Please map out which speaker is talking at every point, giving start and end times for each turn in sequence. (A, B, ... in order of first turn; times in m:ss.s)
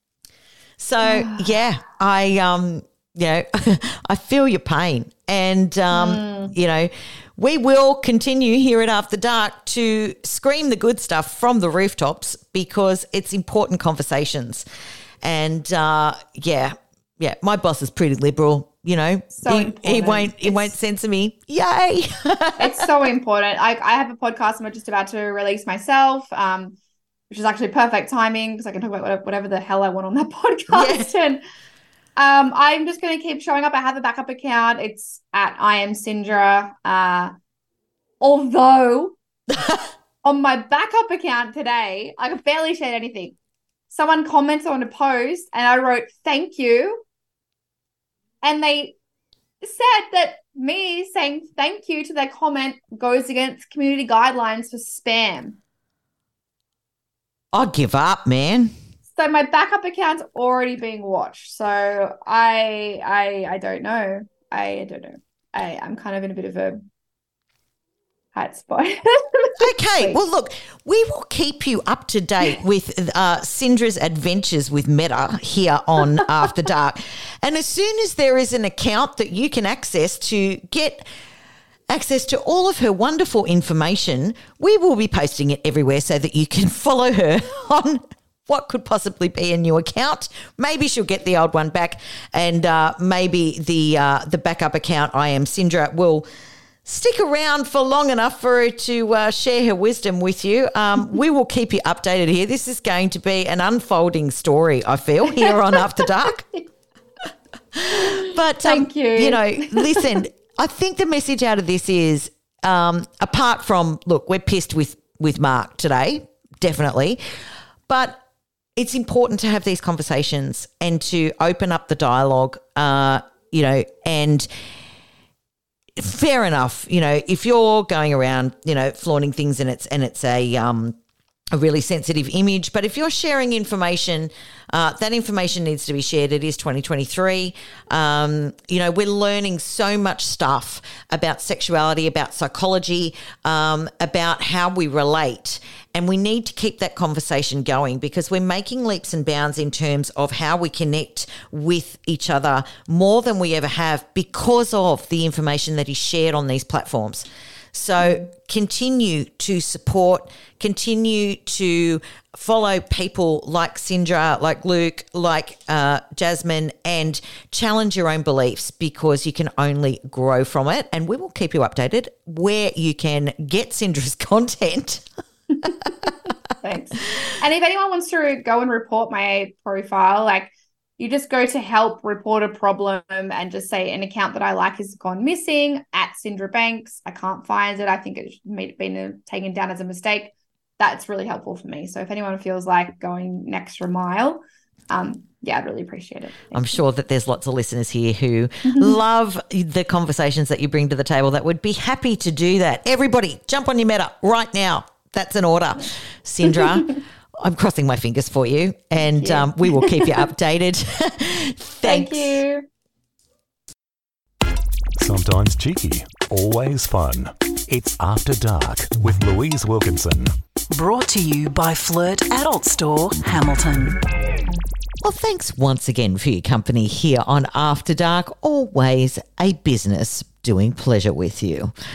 0:00.8-0:14.6 A
0:01.0-0:01.5 B
0:05.9-0:06.5 B
0:15.2-0:22.9 A
0:19.3-0:20.7 B
0:22.6-0:26.8 B
0:27.3-0:31.4 B
0:30.7-0:31.1 A
0:32.2-0:37.3 B
0:38.2-0:39.2 B
0:39.5-0:39.8 A
0:40.2-0:43.4 B
0:43.9-0:47.0 B
0:48.4-0:48.9 B
0:49.6-0:55.6 B
0:57.5-0:58.8 A
0:59.1-1:06.8 B
1:08.3-1:10.2 B
1:09.6-1:21.0 A
1:21.9-1:36.2 A
1:36.8-1:46.4 A
1:47.7-1:57.2 A
1:47.9-1:50.2 B
1:57.9-1:58.2 A
1:58.8-2:04.5 A
2:06.0-2:11.0 A
2:11.5-2:55.0 A
2:55.6-2:56.1 A
2:56.6-3:16.7 B
3:16.5-3:32.4 A
3:29.2-3:30.1 B
3:31.8-3:32.6 B
3:35.0-3:40.3 C
3:40.7-3:44.0 D
3:45.0-3:51.7 A